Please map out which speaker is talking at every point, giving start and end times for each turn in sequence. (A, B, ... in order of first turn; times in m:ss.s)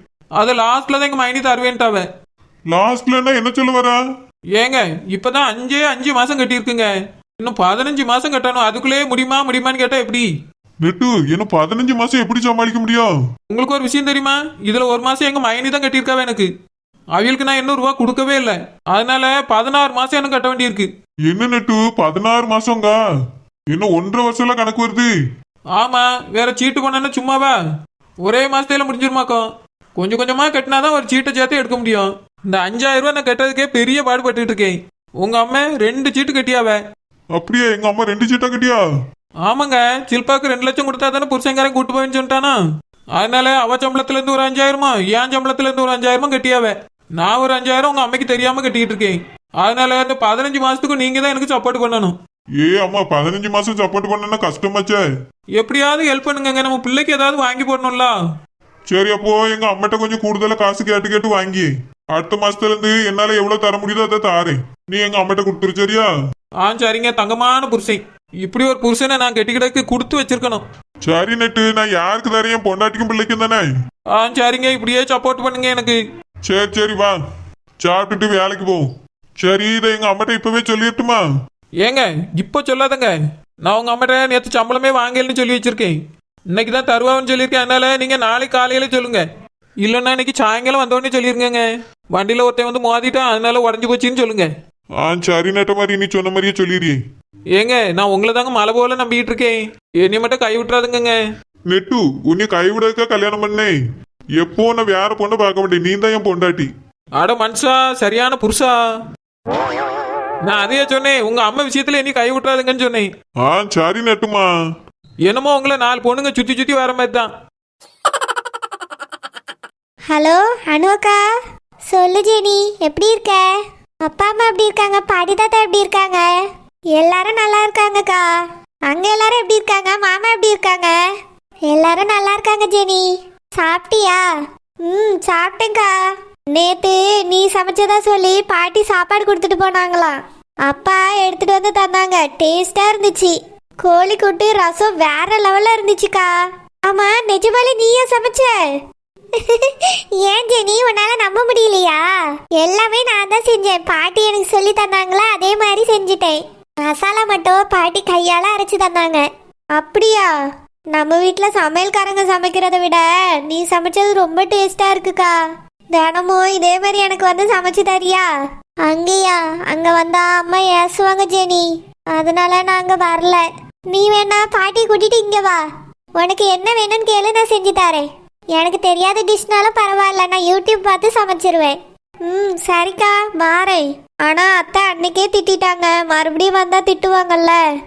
0:00.4-0:02.1 A
0:02.7-0:04.0 B
0:04.5-0:10.3 A
0:10.8-0:13.1 B
0:13.5-0:16.5 A
0:17.1-0:20.9 A
0:21.3-0:23.0 B
0:23.7-0:25.1 B
0:25.7-0:27.5 A
0:28.2-0:29.4 A
0:30.0-0:36.8 A
0:37.3-0:38.8 B
0:39.4-0:42.6 A
0:43.1-0:52.1 A
0:52.6-0:55.1 B
0:55.6-0:58.1 A
0:58.9-1:06.1 B
1:06.6-1:10.6 A
1:11.0-1:13.6 B
1:14.1-1:16.0 A
1:16.4-1:17.2 B
1:17.8-1:21.2 B
1:21.8-1:26.0 A
1:26.5-1:29.2 A
1:29.8-1:34.5 A
1:35.0-1:37.0 B
1:37.5-1:41.2 A
1:41.7-1:43.7 B
1:44.4-1:46.7 B
1:47.2-1:48.8 A
1:50.4-1:53.1 A
1:53.4-1:54.5 B
1:55.3-1:57.3 A
2:00.1-2:01.2 C
2:01.9-2:06.3 C
2:06.9-2:08.2 C
2:08.9-2:11.0 C
2:11.7-2:14.2 C
2:14.8-2:15.9 C
2:16.5-2:26.3 C
2:26.8-2:28.6 C
2:29.4-2:32.0 C
2:32.6-2:40.3 C
2:40.9-2:45.4 C
2:45.9-2:48.3 C
2:48.8-2:55.6 C
2:56.2-3:07.6 C